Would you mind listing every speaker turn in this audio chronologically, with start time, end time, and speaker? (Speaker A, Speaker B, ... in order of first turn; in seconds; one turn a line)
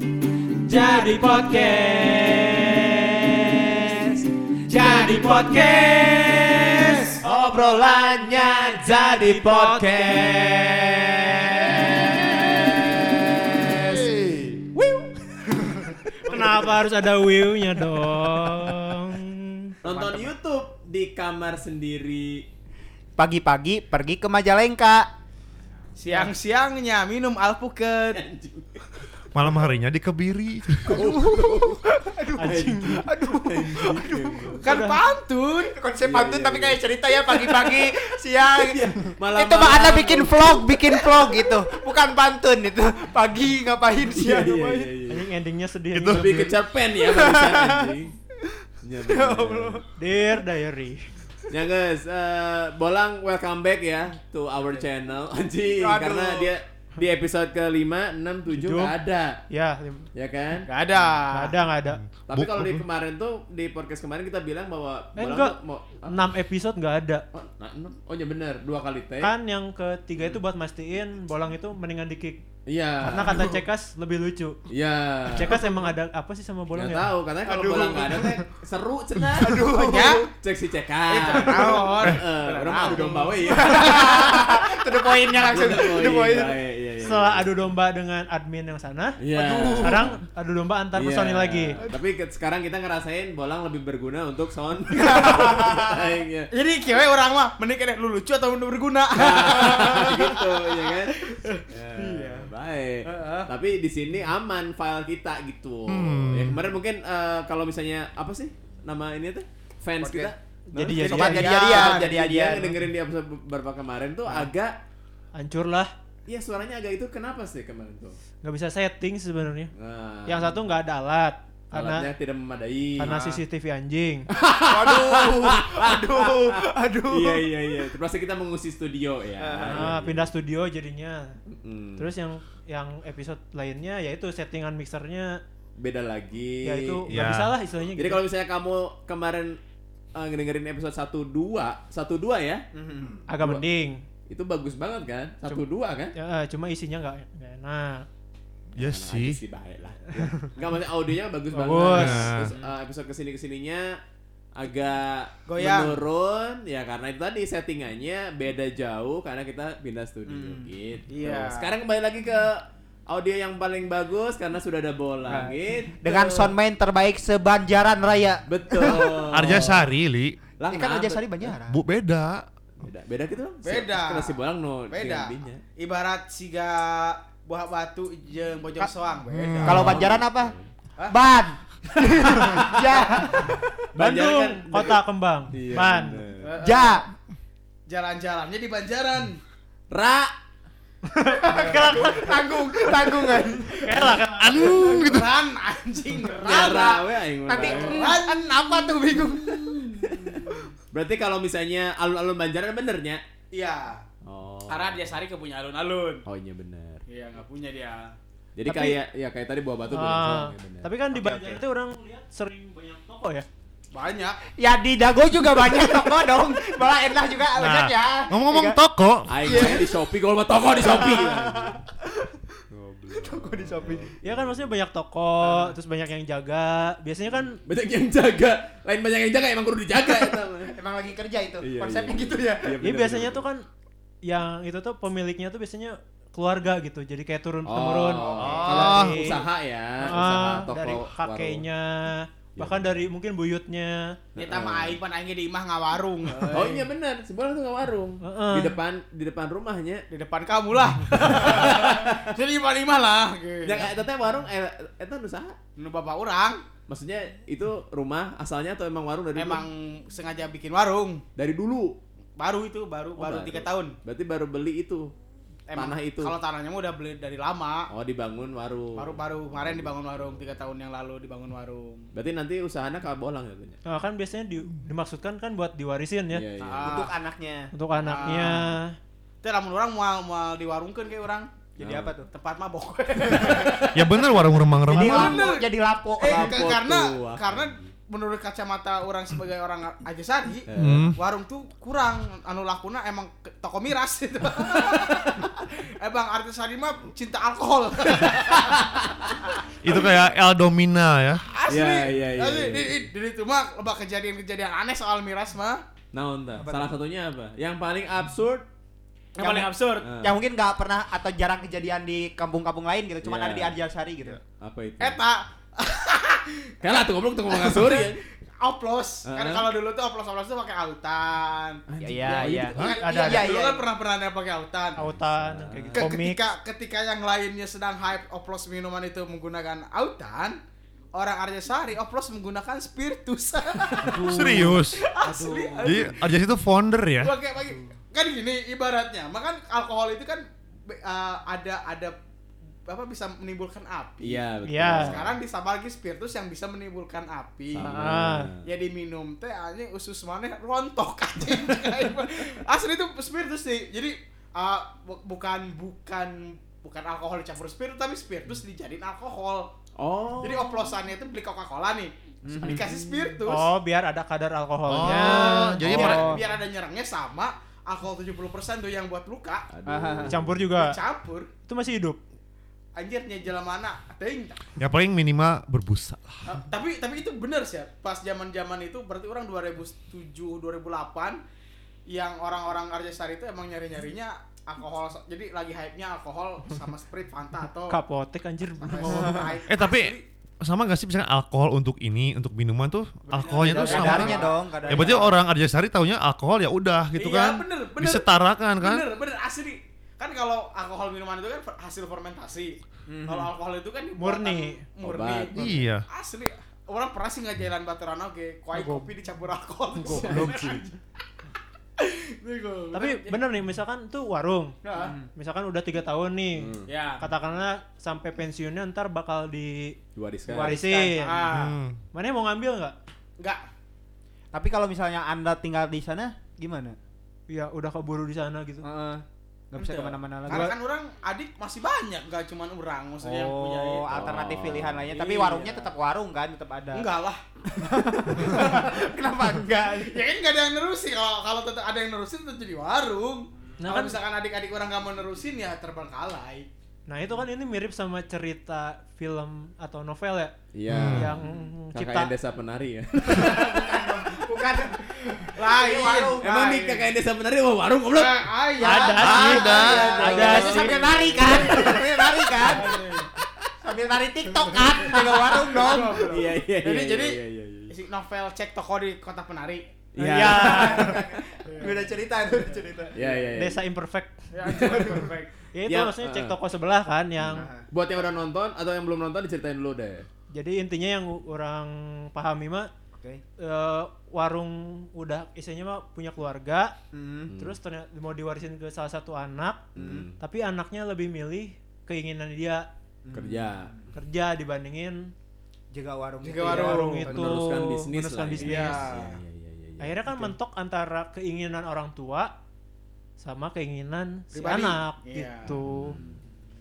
Speaker A: 0.6-7.2
Speaker B: 7.2-14.1
Speaker A: 9.0-10.3
Speaker C: 14.0-14.6
Speaker B: 14.7-15.6
Speaker A: 16.2-19.8
Speaker D: 16.3-16.7
Speaker B: 19.8-22.5
Speaker D: 19.8-20.3
Speaker E: 23.2-25.1
Speaker D: 26.0-28.2
Speaker B: 28.1-29.0
Speaker C: 29.3-31.1
Speaker B: 30.8-34.6
Speaker E: 31.0-34.6
Speaker A: 32.3-33.1
Speaker A: 34.5-35.0
Speaker D: 34.6-35.7
Speaker E: 35.7-44.9
Speaker B: 36.0-36.8
Speaker B: 37.5-37.7
Speaker B: 38.5-41.0
Speaker B: 44.0-45.3
Speaker A: 45.0-46.5
Speaker C: 45.9-46.6
Speaker B: 46.1-48.1
Speaker E: 47.0-47.9
Speaker B: 48.8-49.9
Speaker E: 49.1-49.8
Speaker A: 50.0-51.1
Speaker B: 51.5-59.4
Speaker D: 55.9-56.1
Speaker E: 56.0-56.5
Speaker A: 58.5-59.0
Speaker A: 59.5-60.1
Speaker B: 60.1-60.7
Speaker D: 60.7-61.6
Speaker A: 61.1-62.0
Speaker C: 62.0-62.8
Speaker B: 62.3-66.2
Speaker A: 65.2-67.2
Speaker B: 67.3-69.3
Speaker A: 69.2-72.4
Speaker B: 72.7-73.6
Speaker A: 73.0-74.6
Speaker B: 74.7-75.6
Speaker A: 75.3-77.1
Speaker B: 76.8-84.8
Speaker E: 77.4-78.4
Speaker E: 79.3-80.2
Speaker D: 79.8-80.2
Speaker D: 81.1-83.8
Speaker E: 82.9-86.6
Speaker B: 85.3-87.6
Speaker A: 87.0-89.2
Speaker B: 89.2-90.1
Speaker E: 89.3-90.1
Speaker A: 89.8-91.8
Speaker B: 91.0-96.5
Speaker D: 95.2-95.6
Speaker E: 95.2-95.8
Speaker D: 96.5-102.5
Speaker B: 99.1-114.8
Speaker D: 103.0-103.5
Speaker C: 105.9-106.6
Speaker D: 110.0-110.3
Speaker A: 110.7-111.5
Speaker D: 111.0-112.1
Speaker E: 111.0-112.8
Speaker A: 115.3-115.9
Speaker B: 116.3-118.2
Speaker A: 118.4-119.7
Speaker B: 119.8-120.6
Speaker A: 120.3-122.1
Speaker B: 121.7-123.2
Speaker A: 123.0-124.3
Speaker B: 124.3-130.3
Speaker E: 124.6-127.7
Speaker E: 129.4-129.9
Speaker A: 129.7-131.4
Speaker B: 131.5-132.1
Speaker A: 132.0-135.4
Speaker B: 135.8-137.0
Speaker A: 136.6-138.2
Speaker C: 137.1-137.5
Speaker B: 138.0-139.6
Speaker B: 140.2-142.6
Speaker E: 142.7-143.2
Speaker A: 143.3-144.0
Speaker B: 144.3-146.2
Speaker A: 146.2-148.1
Speaker C: 148.8-149.4
Speaker B: 148.8-154.0
Speaker A: 151.5-152.3
Speaker C: 151.9-152.5
Speaker D: 152.4-152.7
Speaker B: 154.6-166.5
Speaker D: 155.5-156.0
Speaker E: 160.3-160.7
Speaker D: 161.1-161.7
Speaker E: 165.3-169.2
Speaker B: 168.5-169.9
Speaker C: 169.3-170.4
Speaker B: 170.6-171.5
Speaker E: 170.7-171.8
Speaker C: 171.7-172.5
Speaker B: 172.8-175.6
Speaker D: 173.6-174.3
Speaker D: 174.9-180.0
Speaker C: 179.3-180.1
Speaker E: 179.6-180.5
Speaker B: 179.6-180.7
Speaker E: 181.1-183.6
Speaker B: 182.4-182.8
Speaker B: 183.9-185.0
Speaker A: 183.9-186.2
Speaker B: 185.5-186.5
Speaker D: 186.4-187.0
Speaker E: 186.6-187.1
Speaker D: 187.9-189.4
Speaker B: 189.9-190.3
Speaker A: 191.1-192.4
Speaker E: 191.4-194.2
Speaker D: 191.6-193.2
Speaker A: 193.8-194.9
Speaker C: 194.4-195.3
Speaker D: 194.9-197.0
Speaker E: 196.3-200.4
Speaker B: 196.4-198.2
Speaker D: 197.5-198.6
Speaker B: 200.0-203.2
Speaker D: 203.5-204.0
Speaker B: 204.2-205.1
Speaker D: 204.7-206.2
Speaker B: 206.2-207.0
Speaker D: 207.1-208.1
Speaker B: 208.6-210.9
Speaker A: 209.9-213.5
Speaker E: 211.1-211.6
Speaker D: 213.9-214.4
Speaker E: 214.6-218.8
Speaker C: 217.6-219.8
Speaker B: 219.3-221.8
Speaker E: 219.4-219.9
Speaker E: 220.8-222.5
Speaker B: 222.7-224.7
Speaker E: 223.1-224.1
Speaker A: 224.2-227.6
Speaker E: 225.4-225.8
Speaker B: 227.7-230.8
Speaker E: 230.7-232.8
Speaker B: 231.6-233.4
Speaker A: 232.8-233.7
Speaker A: 234.2-239.4
Speaker B: 237.7-241.6
Speaker D: 238.2-238.7
Speaker C: 238.4-239.3
Speaker A: 240.0-244.2
Speaker B: 242.6-243.0
Speaker B: 244.3-245.0
Speaker D: 244.4-246.8
Speaker B: 246.4-250.1
Speaker A: 248.2-248.8
Speaker D: 250.1-253.9
Speaker B: 251.1-252.3
Speaker B: 253.6-255.6
Speaker D: 255.8-256.6
Speaker B: 256.9-259.6
Speaker D: 259.4-261.2
Speaker B: 261.4-261.9
Speaker D: 262.4-263.9
Speaker B: 263.1-265.1
Speaker D: 265.7-267.9
Speaker B: 265.8-266.4
Speaker B: 267.9-270.6
Speaker D: 268.9-272.1
Speaker B: 272.1-273.8
Speaker A: 273.9-276.4
Speaker B: 276.3-277.1
Speaker D: 276.6-277.1
Speaker E: 276.8-277.7
Speaker A: 277.7-278.9
Speaker D: 278.0-278.7
Speaker D: 279.4-281.5
Speaker E: 281.8-282.3
Speaker B: 281.8-282.1
Speaker D: 282.3-284.2
Speaker B: 283.2-283.9
Speaker C: 283.9-285.4
Speaker D: 284.9-285.6
Speaker E: 284.9-286.6
Speaker D: 286.2-298.8
Speaker B: 286.2-287.9
Speaker B: 290.7-291.1
Speaker C: 290.8-291.2
Speaker B: 298.1-299.2
Speaker C: 299.8-301.4
Speaker D: 299.9-300.2
Speaker D: 301.5-305.8
Speaker B: 301.7-303.0
Speaker B: 306.1-308.6
Speaker E: 306.6-306.9
Speaker D: 309.4-310.1
Speaker E: 309.4-314.4
Speaker B: 310.0-310.4
Speaker B: 313.2-313.8
Speaker B: 314.6-315.2
Speaker D: 315.0-316.9
Speaker B: 316.8-318.2
Speaker D: 317.5-321.8
Speaker B: 319.2-319.7
Speaker B: 321.9-322.8
Speaker E: 322.0-323.9
Speaker D: 322.4-325.1
Speaker A: 322.7-323.6
Speaker A: 324.9-326.4
Speaker B: 325.0-326.1
Speaker D: 325.9-330.6
Speaker D: 331.1-336.4
Speaker A: 334.0-334.8
Speaker E: 334.1-334.6
Speaker C: 334.2-335.1
Speaker E: 335.2-336.1
Speaker C: 335.8-337.4
Speaker D: 337.2-342.2
Speaker D: 342.9-347.9
Speaker B: 344.2-345.4
Speaker A: 344.6-345.1
Speaker B: 347.7-348.6
Speaker A: 347.8-348.5
Speaker D: 348.6-359.7
Speaker B: 360.0-360.7
Speaker D: 360.4-363.7
Speaker E: 362.4-363.0
Speaker A: 363.4-366.3
Speaker C: 364.9-366.4
Speaker D: 365.8-369.7
Speaker E: 365.8-366.4
Speaker B: 369.7-370.6
Speaker E: 369.9-370.4
Speaker A: 370.3-371.0
Speaker D: 370.5-371.5
Speaker A: 371.7-372.2
Speaker D: 372.9-374.7
Speaker C: 374.8-376.5
Speaker D: 376.5-381.4
Speaker D: 382.1-388.0
Speaker A: 387.9-389.5
Speaker D: 388.8-390.2
Speaker E: 389.1-389.4
Speaker C: 389.6-399.0
Speaker A: 393.3-394.6
Speaker E: 393.8-395.4
Speaker D: 393.9-394.5
Speaker D: 397.1-398.3
Speaker D: 398.8-402.8
Speaker E: 403.1-403.5
Speaker D: 403.3-410.9
Speaker A: 404.2-404.8
Speaker B: 405.0-405.7
Speaker C: 405.6-406.1
Speaker A: 408.8-409.1
Speaker B: 410.1-410.7
Speaker E: 410.1-410.8
Speaker D: 412.0-413.4
Speaker A: 412.9-414.8
Speaker D: 414.9-415.1
Speaker E: 414.9-415.2
Speaker A: 415.4-421.4
Speaker B: 416.6-416.9
Speaker D: 416.9-417.2
Speaker B: 420.1-420.8
Speaker E: 420.6-421.4
Speaker D: 421.2-421.8
Speaker C: 421.4-422.0
Speaker A: 422.1-422.9
Speaker E: 424.5-427.0
Speaker A: 427.5-428.9
Speaker E: 428.8-430.7
Speaker D: 429.8-434.2
Speaker E: 433.2-437.1
Speaker B: 434.1-435.1
Speaker D: 435.1-435.9
Speaker D: 436.9-437.4
Speaker E: 437.8-440.2
Speaker D: 438.2-439.0
Speaker D: 440.0-446.7
Speaker A: 443.8-444.2
Speaker A: 447.1-452.3
Speaker B: 450.7-451.4
Speaker C: 450.9-451.4
Speaker B: 451.9-453.9
Speaker E: 453.2-457.1
Speaker D: 455.6-456.4
Speaker B: 456.4-458.5
Speaker D: 458.1-462.0
Speaker E: 458.8-463.0
Speaker A: 458.8-461.0
Speaker C: 459.2-460.2
Speaker B: 459.8-462.1
Speaker D: 462.6-463.3
Speaker E: 463.8-466.4
Speaker B: 464.8-467.9
Speaker D: 465.0-467.4
Speaker D: 467.9-469.9
Speaker B: 470.1-471.2
Speaker A: 470.2-471.3
Speaker E: 470.4-473.3
Speaker D: 471.7-472.0
Speaker B: 473.1-473.8
Speaker A: 473.6-474.5
Speaker D: 474.5-475.5
Speaker B: 474.6-476.6
Speaker A: 475.7-477.7
Speaker E: 477.4-477.9
Speaker B: 477.5-480.2
Speaker A: 480.5-482.9
Speaker A: 483.6-486.9
Speaker E: 487.1-487.5
Speaker B: 487.5-487.8
Speaker A: 487.6-489.9
Speaker B: 489.9-490.4
Speaker E: 489.9-490.2
Speaker A: 490.4-492.9
Speaker E: 493.2-494.0
Speaker B: 493.3-494.0
Speaker A: 494.1-495.3
Speaker E: 495.9-497.4
Speaker D: 496.4-497.3
Speaker A: 496.6-499.1
Speaker B: 497.3-500.5
Speaker D: 498.6-499.4
Speaker A: 500.0-502.5
Speaker A: 503.4-506.2
Speaker D: 504.5-505.8
Speaker B: 505.7-506.4